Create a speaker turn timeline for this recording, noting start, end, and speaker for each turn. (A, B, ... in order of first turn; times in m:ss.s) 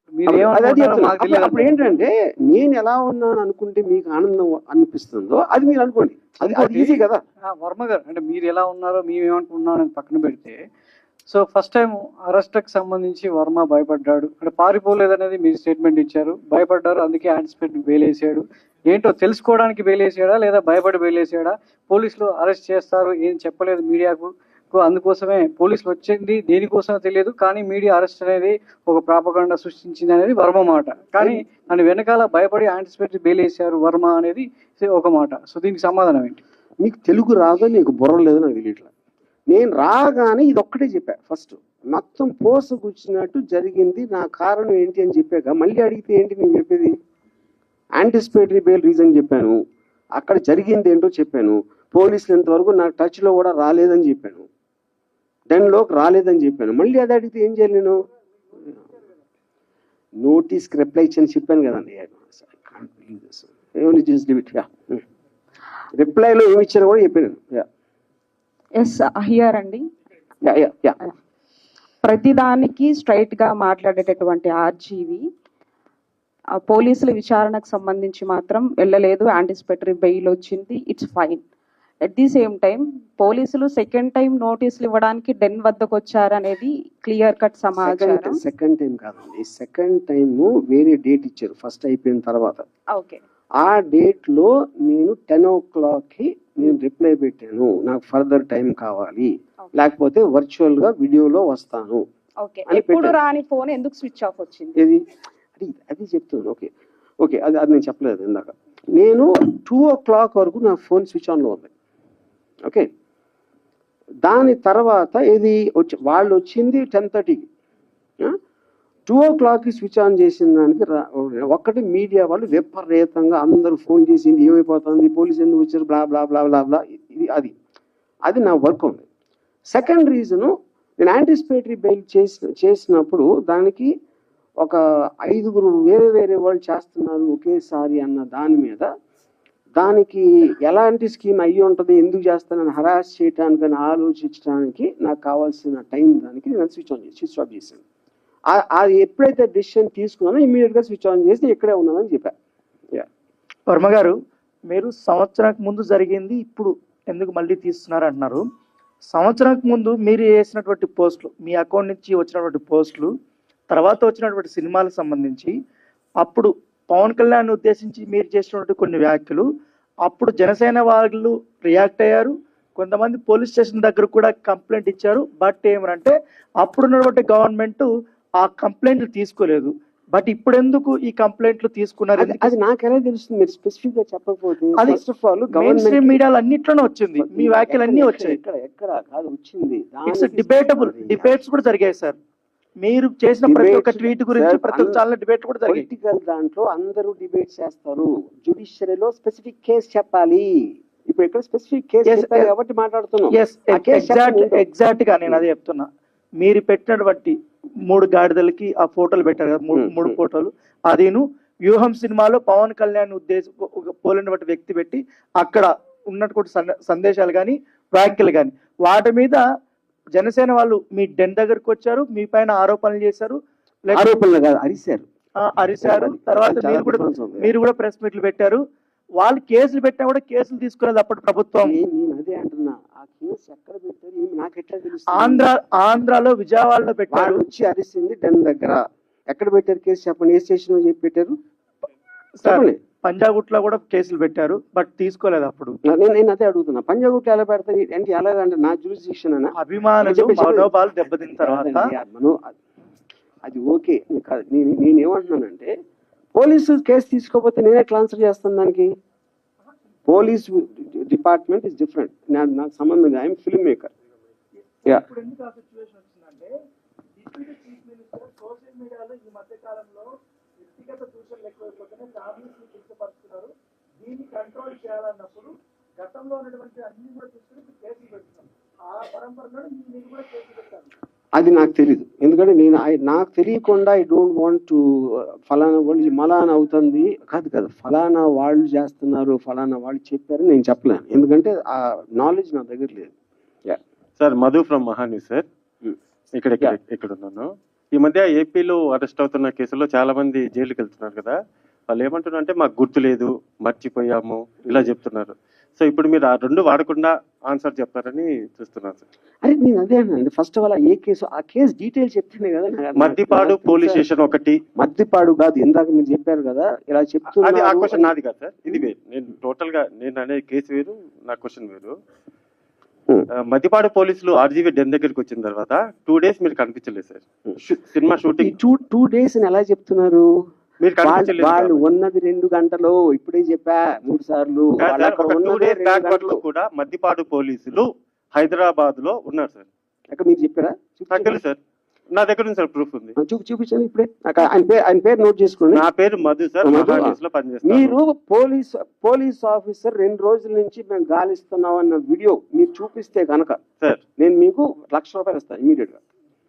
0:00.1-0:02.0 A
0:00.3-0:07.2 B
0:06.4-0:07.0 A
0:07.6-0:10.6 A
0:11.3-0:36.4 A
0:36.8-0:38.9 B
0:39.5-0:46.9 B
0:48.0-0:49.6 B
0:50.2-0:54.5 B
0:55.5-0:58.0 B
1:00.2-1:05.0 B
1:05.9-1:07.6 B
1:08.8-1:09.8 C
1:10.4-1:11.0 B
1:12.0-1:15.2 C
1:16.6-1:21.4 C
1:22.1-1:28.4 C
1:27.8-1:32.6 B
1:32.9-1:33.2 C
1:33.6-1:42.0 B
1:42.4-1:44.8 C
1:42.7-1:43.2 B
1:45.6-1:46.7 B
1:47.2-1:51.7 B
1:54.2-1:57.5 B
1:59.1-2:07.5 B
2:08.3-2:09.1 B
2:09.7-2:13.9 B
2:14.6-2:18.9 B
2:19.8-2:27.8 B
2:28.5-2:32.3 B
2:33.7-2:34.1 D
2:34.7-2:38.4 D
2:39.1-2:43.1 D
2:43.7-2:45.5 D
2:46.2-2:49.4 D
2:50.1-2:57.9 D
2:58.4-3:02.5 D
3:02.2-3:06.2 B
3:05.5-3:08.4 D
3:07.2-3:11.4 B
3:10.1-3:12.2 D
3:12.8-3:15.9 D
3:13.5-3:15.0 B
3:15.7-3:24.6 B
3:22.1-3:22.5 D
3:23.3-3:25.9 D
3:26.4-3:27.4 D
3:27.9-3:39.4 D
3:29.8-3:30.1 B
3:40.2-3:44.1 D
3:43.9-3:45.1 B
3:45.4-3:48.6 D
3:45.8-3:47.5 B
3:49.2-3:51.8 D
3:51.6-3:55.5 B
3:55.2-3:57.4 D
3:57.1-4:01.4 B
4:02.4-4:05.8 D
4:02.4-4:02.8 B
4:05.9-4:12.5 B
4:09.6-4:11.9 D
4:13.4-4:15.7 B
4:16.4-4:18.9 B
4:20.1-4:23.9 B
4:24.7-4:26.5 D
4:27.2-4:30.1 D
4:30.6-4:40.9 D
4:41.4-4:53.2 B
4:54.2-4:55.5 E
4:56.4-5:01.4 E
5:01.9-5:09.0 E
5:09.4-5:14.1 B
5:13.0-5:14.6 E
5:14.8-5:18.1 B
5:17.4-5:21.9 E
5:23.5-5:28.6 E
5:28.4-5:30.3 B
5:30.8-5:31.9 E
5:31.0-5:36.4 B
5:34.8-5:39.7 E
5:40.1-5:41.4 B
5:41.1-5:41.6 E
5:42.1-5:43.2 E
5:43.2-5:45.8 B
5:45.7-5:48.0 E
5:46.6-5:53.6 B
5:54.2-5:56.0 B